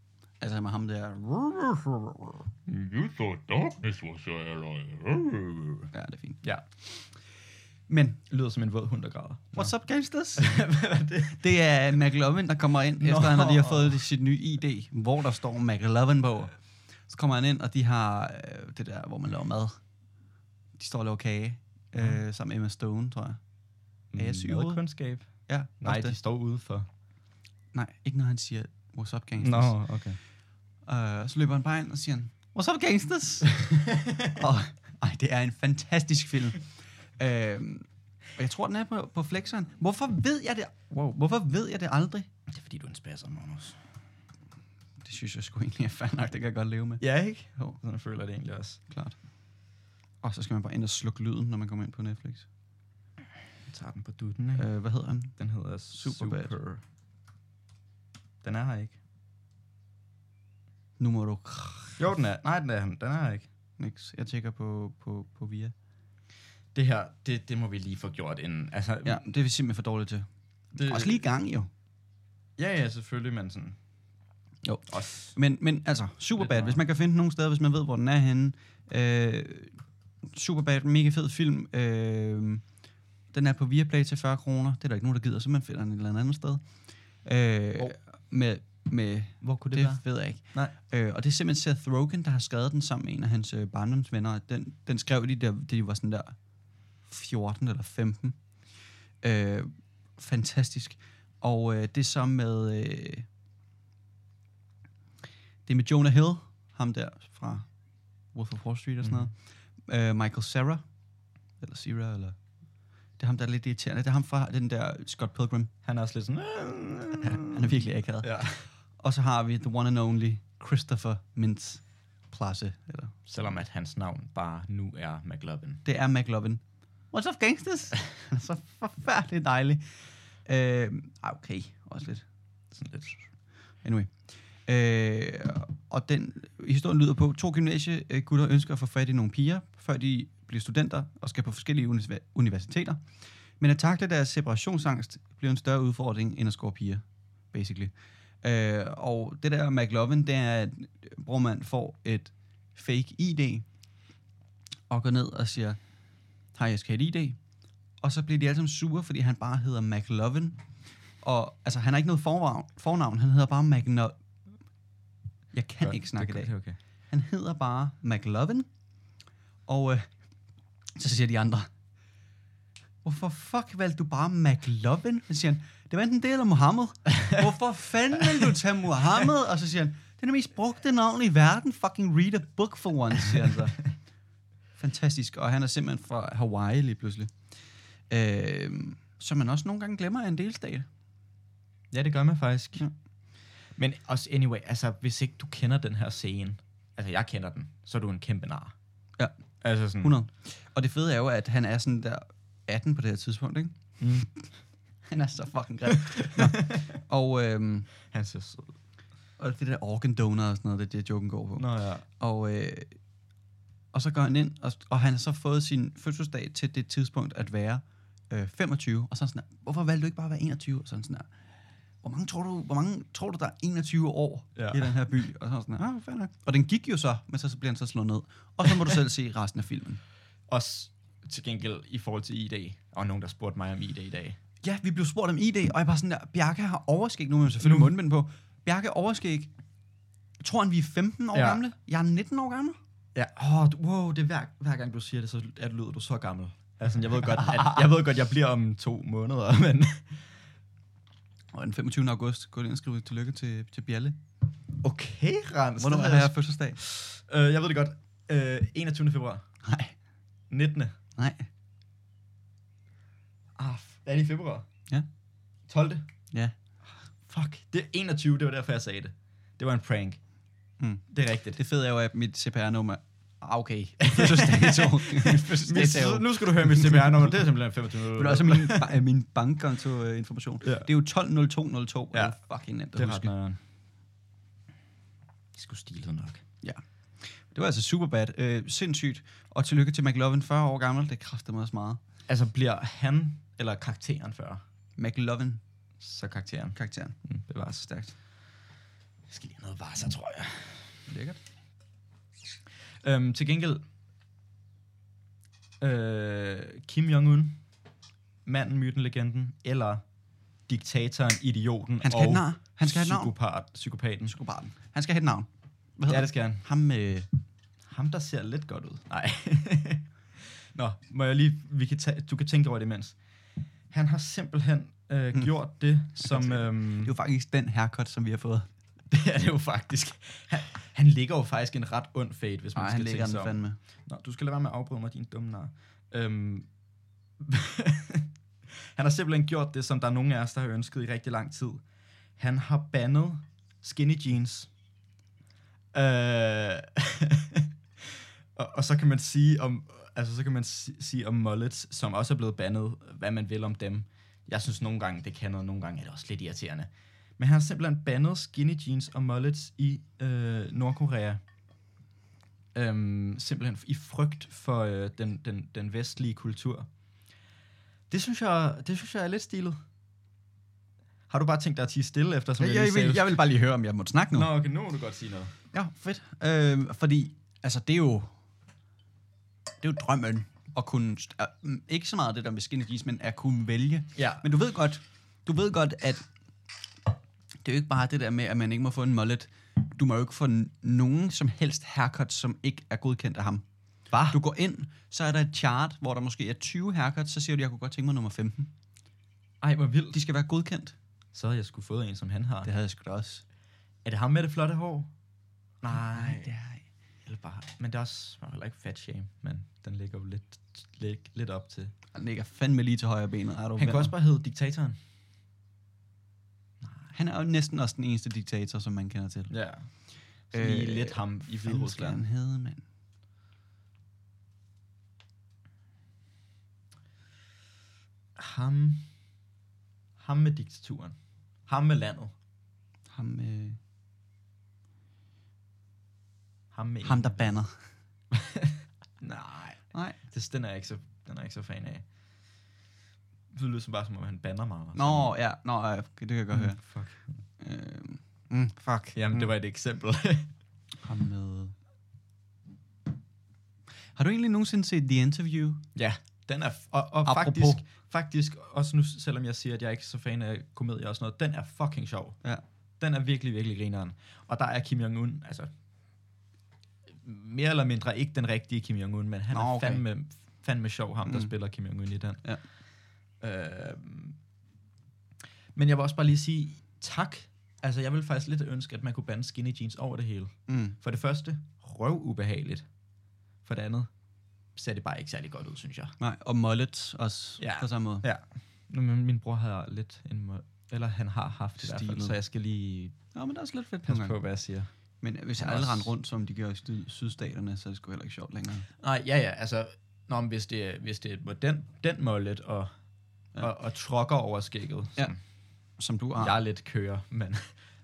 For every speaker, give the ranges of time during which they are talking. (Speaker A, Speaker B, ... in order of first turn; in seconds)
Speaker A: 0.4-2.5, 5.9-6.4, 7.9-8.2, 9.5-10.7, 11.4-16.5, 17.1-19.8, 20.8-23.4, 24.1-24.8, 25.5-26.1, 27.7-29.8, 30.9-42.3, 45.0-47.0, 48.9-49.2, 50.2-52.5, 54.5-55.4, 55.9-56.5, 61.0-62.0, 63.8-65.7, 69.0-71.7, 74.6-79.8, 80.3-82.6, 83.3-86.6, 87.2-96.4, 97.0-98.4, 99.2-103.3, 105.7-107.7, 108.3-110.8, 111.6-112.4, 113.2-115.7, 117.2-118.4, 119.0-123.2, 125.8-129.8, 130.4-132.2, 133.8-143.0, 143.6-153.7, 154.9-155.8, 156.5-157.4, 158.0-160.6, 161.2-164.2, 165.5-166.5, 167.1-168.7, 169.7-170.1, 170.9-171.7, 173.0-183.9, 184.8-187.3, 188.1-190.9, 200.0-203.9, 205.1-207.9, 209.4-213.0, 213.9-221.3, 222.0-230.0, 234.6-239.5, 240.4-242.8, 251.5-254.2, 255.8-256.8, 259.6-259.9, 261.2-261.5, 270.8-277.4, 278.1-283.3, 286.6-292.0, 295.0-295.6, 296.7-297.2, 297.9-298.1, 301.1-301.4, 312.0-313.3, 314.2-317.3, 326.1-328.7, 332.7-333.8, 372.6-374.5, 375.7-378.3, 379.8-386.2, 387.6-393.6, 394.3-398.7, 400.1-400.9, 402.6-403.4, 405.9-406.8, 412.1-414.1, 417.1-419.5, 420.5-422.8, 433.1-433.8, 437.0-437.9, 439.9-440.2, 444.9-446.8, 447.6-449.5, 451.0-451.7, 454.1-455.8, 457.2-457.8, 469.5-470.0, 480.7-480.9, 486.2-488.2, 491.8-492.4, 493.3-494.4, 495.2-498.9, 506.0-506.6
Speaker B: 2.7-5.9
Speaker C: 8.3-9.7, 10.3-11.4, 13.0-14.0, 24.1-26.9, 29.4-30.2, 42.5-43.8, 47.0-48.8, 53.7-54.7, 55.4-56.8, 58.4-59.0, 62.0-63.5, 66.7-69.3, 70.7-71.2, 72.6-73.8, 74.9-75.3, 76.3-76.8, 89.4-90.7, 109.0-109.3, 115.8-118.6, 123.3-125.8, 132.7-133.2, 165.8-166.8, 191.9-192.9, 193.8-198.7, 199.6-200.2, 204.0-204.3, 205.9-206.8, 208.1-208.7, 211.6-212.1, 224.6-224.9, 230.5-234.4, 237.6-237.9, 241.3-241.6, 243.1-250.2, 254.8-259.4, 260.5-260.9, 263.6-264.7, 265.7-266.1, 267.2-270.2, 271.1-271.6, 274.0-278.9, 280.6-280.9, 282.9-283.6, 285.5-286.4, 292.3-294.6, 296.0-297.9, 299.3-301.0, 303.0-303.8, 305.8-307.6, 308.4-310.0, 310.7-314.3, 316.1-316.6, 317.9-320.1, 320.7-323.2, 323.9-327.1, 329.1-336.7, 337.4-341.8, 342.4-344.7, 345.9-361.4, 362.7-366.9, 368.1-369.8, 371.3-373.3, 374.3-375.5, 384.1-384.4, 394.1-394.4, 399.6-400.2, 401.3-402.7, 404.0-405.1, 405.8-406.5, 407.2-411.9, 413.8-415.0, 416.8-417.1, 419.5-419.9, 420.5-422.2, 428.4-429.1, 430.2-432.3, 436.7-437.6, 438.3-442.0, 443.5-445.3, 446.5-447.3, 449.1-450.5, 455.9-462.4, 463.0-465.7, 467.1-472.4, 473.4-474.4, 475.7-482.9, 483.6-484.1, 484.8-486.1, 487.6-493.2, 494.0-494.9, 495.6-496.1, 499.0-502.9, 503.6-505.4, 506.4-507.7